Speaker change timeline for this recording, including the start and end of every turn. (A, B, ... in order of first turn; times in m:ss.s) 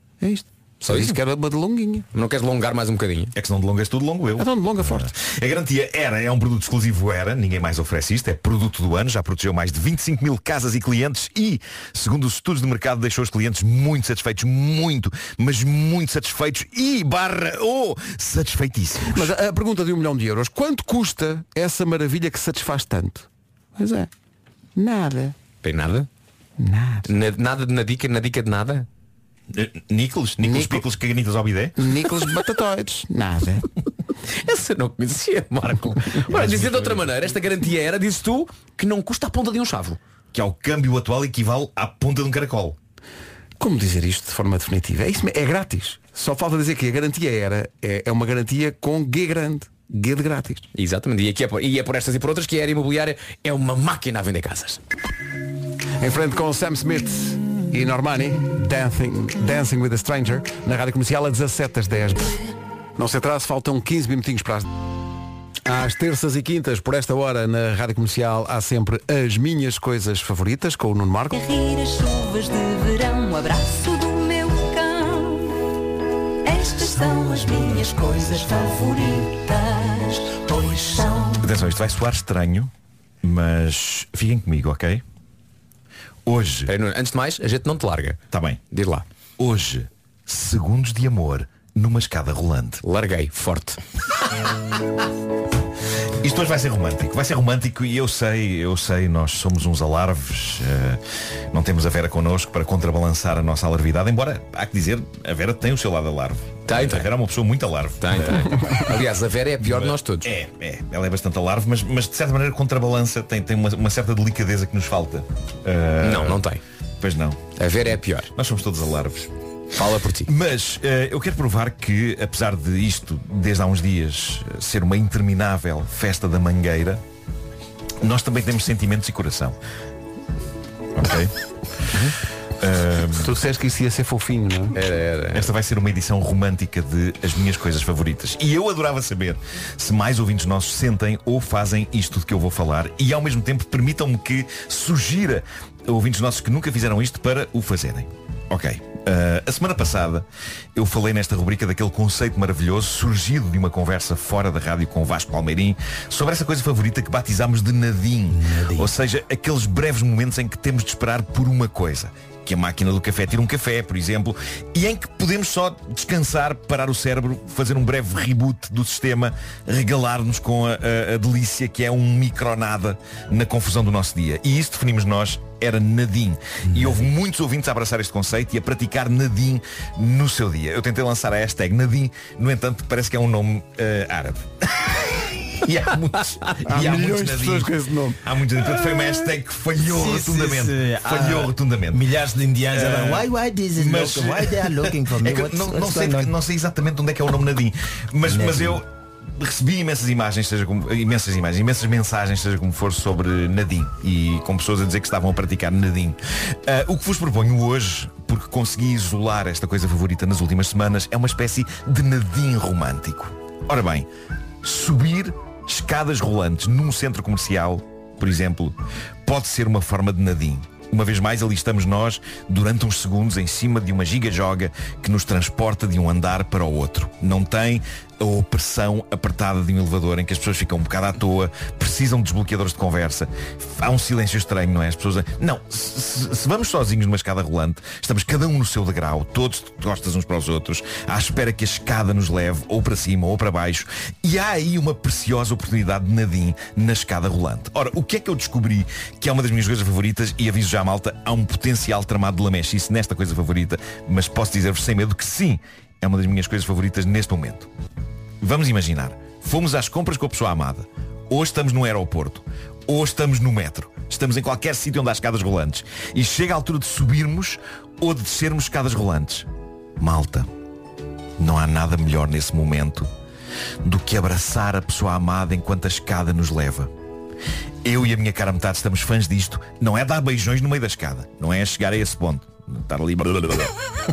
0:00.2-0:02.1 A
0:00.8-0:01.2 B
0:02.1-0:03.3 B
0:03.3-0:19.3 C
0:04.4-0:05.1 A
0:19.1-0:24.1 A
0:24.8-0:25.4 A
0:25.6-0:26.1 B
0:26.6-0:27.1 A
0:27.0-0:28.9 B
0:29.5-0:31.8 C
0:30.4-0:30.8 A
0:31.8-0:33.7 A
0:34.3-0:40.0 B
0:36.3-0:37.0 C
0:40.3-0:42.8 C
0:43.6-0:50.6 A
0:50.7-0:54.8 B
0:56.0-1:02.4 A
1:03.0-1:04.7 A
1:05.6-1:11.4 A
1:11.3-1:15.6 D
1:16.4-1:21.4 D
1:21.4-1:22.7 C
1:23.2-1:25.0 C
1:26.2-1:26.7 C
1:26.7-1:28.2 B
1:28.3-1:28.6 C
1:28.7-1:29.0 B
1:29.4-1:32.8 C
1:32.8-1:33.8 B
1:36.2-1:41.0 C
1:41.5-1:48.8 C
1:46.7-1:47.1 B
1:48.0-1:50.3 B
1:49.6-1:56.4 C
1:56.0-1:56.6 B
1:57.0-1:57.4 C
1:57.6-1:58.3 B
1:58.3-1:59.3 C
1:59.8-2:00.3 B
2:00.3-2:07.0 C
2:08.0-2:09.6 C
2:11.0-2:11.3 C
2:12.6-2:13.3 C
2:13.2-2:14.8 A
2:14.7-2:15.5 B
2:15.3-2:30.2 C
2:30.7-3:07.7 C
2:38.3-2:38.9 E
3:06.6-3:08.3 A
3:08.2-3:12.1 C
3:09.8-3:16.4 E
3:12.7-3:18.8 C
3:18.2-3:18.8 E
3:19.4-3:34.0 C
3:34.6-4:17.7 C
4:18.4-4:29.5 C
4:30.0-4:30.5 C
4:31.4-4:33.1 C
4:33.8-4:36.9 C
4:37.8-4:43.7 C